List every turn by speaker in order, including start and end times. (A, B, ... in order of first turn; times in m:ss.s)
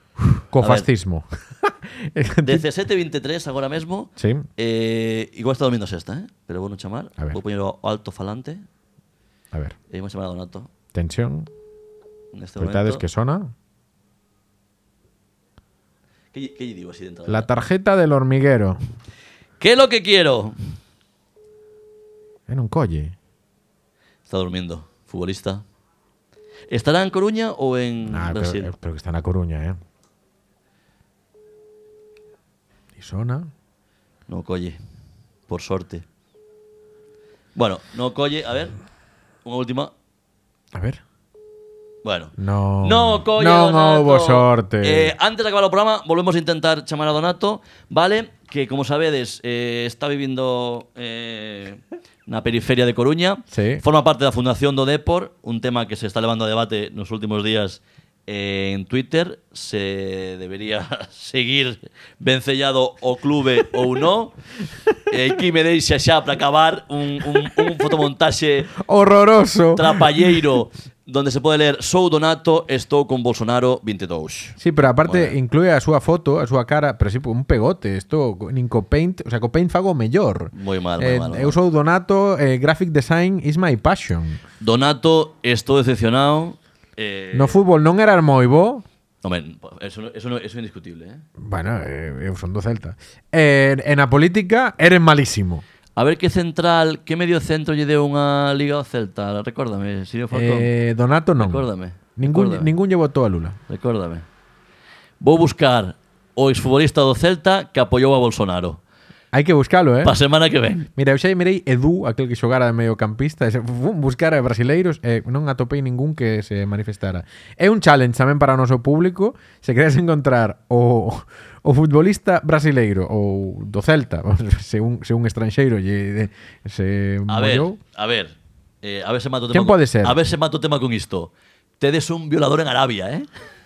0:00.4-0:02.6 A
0:00.6-0:00.9 B
0:02.4-0:08.6 B
0:04.2-0:04.5 A
0:09.9-0:10.7 B
0:10.9-0:11.5 A
0:12.3-0:13.0 B
0:12.6-0:13.5 A
0:16.3-0:17.5 B
0:17.3-0:18.8 A
0:19.6-0:20.6 B
0:22.5-0:23.2 A
0:24.3-0:25.6 B
0:26.7-0:28.7 B
0:28.1-0:29.8 A
0:33.0-0:33.5 A
0:34.3-0:34.8 B
0:35.5-0:36.0 B
0:37.6-0:38.8 B
0:39.4-0:39.9 B
0:40.7-0:41.0 A
0:42.0-1:04.4 B
0:42.4-0:45.1 A
0:53.5-0:53.8 A
1:05.1-1:08.7 B
1:08.8-1:10.4 A
1:09.8-1:15.4 B
1:14.6-1:24.4 A
1:20.5-1:21.6 B
1:24.6-1:27.6 B
1:27.3-1:28.8 A
1:29.2-1:31.2 B
1:31.4-1:35.6 A
1:36.0-1:40.7 B
1:40.3-1:43.6 A
1:41.4-1:42.7 B
1:43.7-1:44.3 B
1:45.2-1:48.8 B
1:49.3-1:50.2 A
1:50.0-1:50.9 B
1:51.0-2:07.8 A
2:07.3-2:13.3 B
2:09.5-2:10.2 A